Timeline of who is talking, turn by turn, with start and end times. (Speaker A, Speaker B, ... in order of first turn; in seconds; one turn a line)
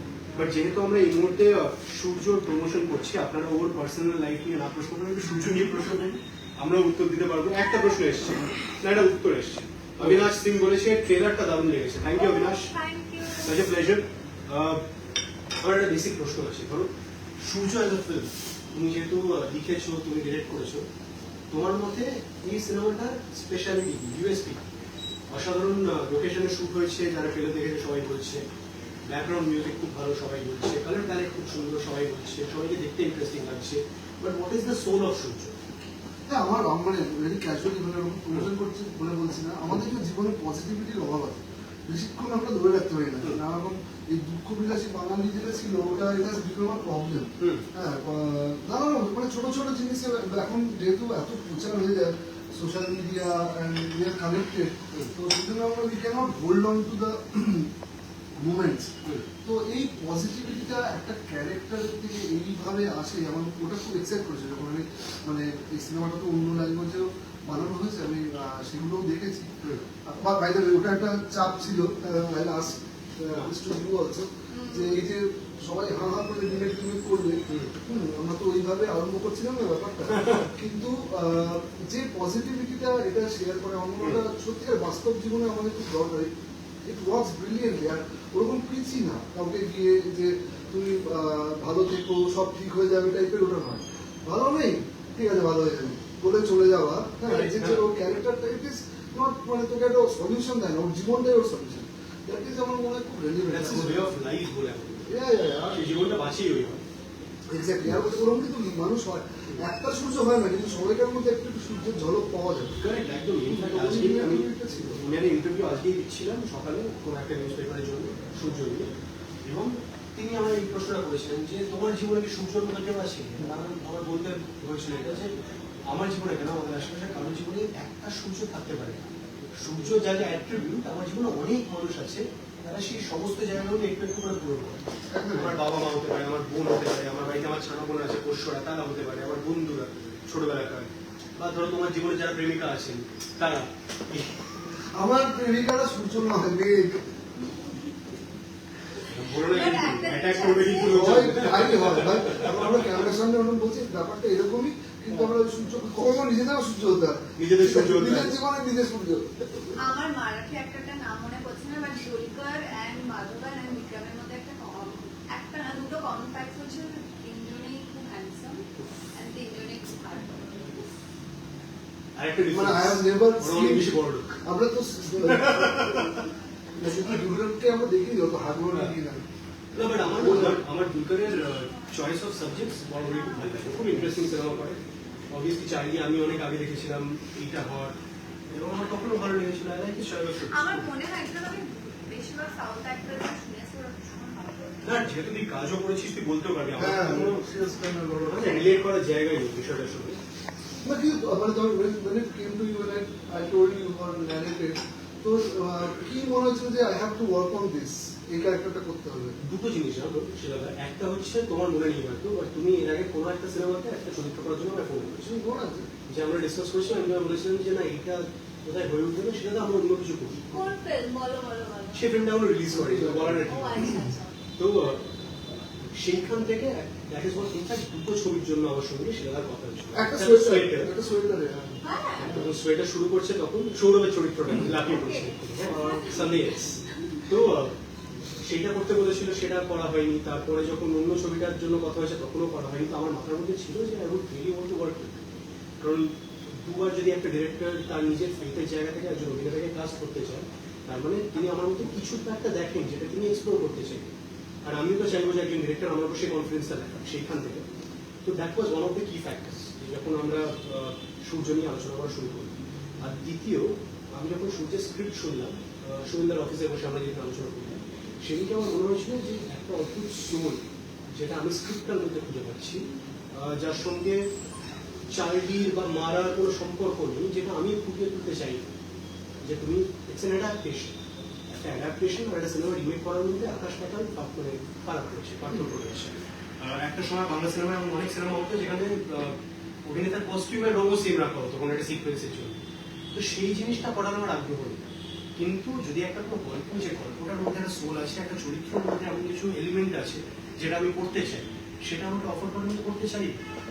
Speaker A: 0.3-12.7
Speaker B: 7.6-8.2
Speaker B: 12.1-13.6
Speaker A: 13.3-14.8
Speaker A: 15.6-20.9
Speaker A: 21.5-24.6
Speaker A: 25.3-28.4
Speaker A: 29.1-35.6
Speaker C: 36.3-57.7
Speaker A: 47.4-47.6
Speaker C: 58.4-58.9
Speaker C: 59.5-69.5
Speaker C: 70.1-86.3
Speaker B: 74.5-75.1
Speaker A: 77.5-77.7
Speaker A: 80.1-80.5
Speaker C: 86.9-104.2
Speaker A: 97.2-97.9
Speaker A: 103.5-105.1
Speaker C: 105.1-105.8
Speaker A: 105.7-106.8
Speaker C: 107.5-112.8
Speaker A: 112.8-118.9
Speaker C: 113.5-115.1
Speaker A: 119.5-125.3
Speaker A: 125.9-129.1
Speaker A: 129.6-134.8
Speaker C: 135.1-135.6
Speaker A: 135.3-144.4
Speaker C: 144.9-147.0
Speaker A: 149.0-153.1
Speaker B: 149.3-151.1
Speaker C: 150.8-159.8
Speaker A: 157.4-158.4
Speaker B: 159.8-170.8
Speaker A: 172.2-174.4
Speaker C: 172.5-176.2
Speaker A: 175.2-176.3
Speaker C: 176.8-179.2
Speaker A: 178.7-178.9
Speaker A: 179.7-184.8
Speaker C: 180.0-180.6
Speaker B: 183.1-183.6
Speaker A: 185.3-187.9
Speaker A: 188.5-190.9
Speaker B: 190.4-195.2
Speaker A: 194.8-197.5
Speaker C: 196.8-198.8
Speaker A: 198.2-200.2
Speaker C: 200.8-209.4
Speaker A: 209.4-215.4
Speaker C: 215.2-215.9
Speaker A: 216.1-220.4
Speaker B: 220.5-222.1
Speaker A: 221.9-224.1
Speaker C: 222.7-223.4
Speaker B: 223.4-224.4
Speaker A: 224.6-225.0
Speaker A: 225.9-230.9
Speaker C: 229.9-231.8
Speaker B: 231.8-232.4
Speaker A: 232.2-237.8
Speaker B: 234.7-236.4
Speaker C: 235.6-236.3
Speaker A: 238.4-245.3
Speaker A: 245.8-246.1
Speaker A: 246.6-254.1
Speaker A: 254.7-257.6
Speaker A: 258.2-270.6
Speaker A: 271.2-274.2
Speaker A: 275.1-278.7
Speaker A: 279.5-281.0
Speaker A: 281.5-289.4
Speaker A: 289.9-292.6
Speaker A: 293.1-294.8
Speaker A: 295.4-303.4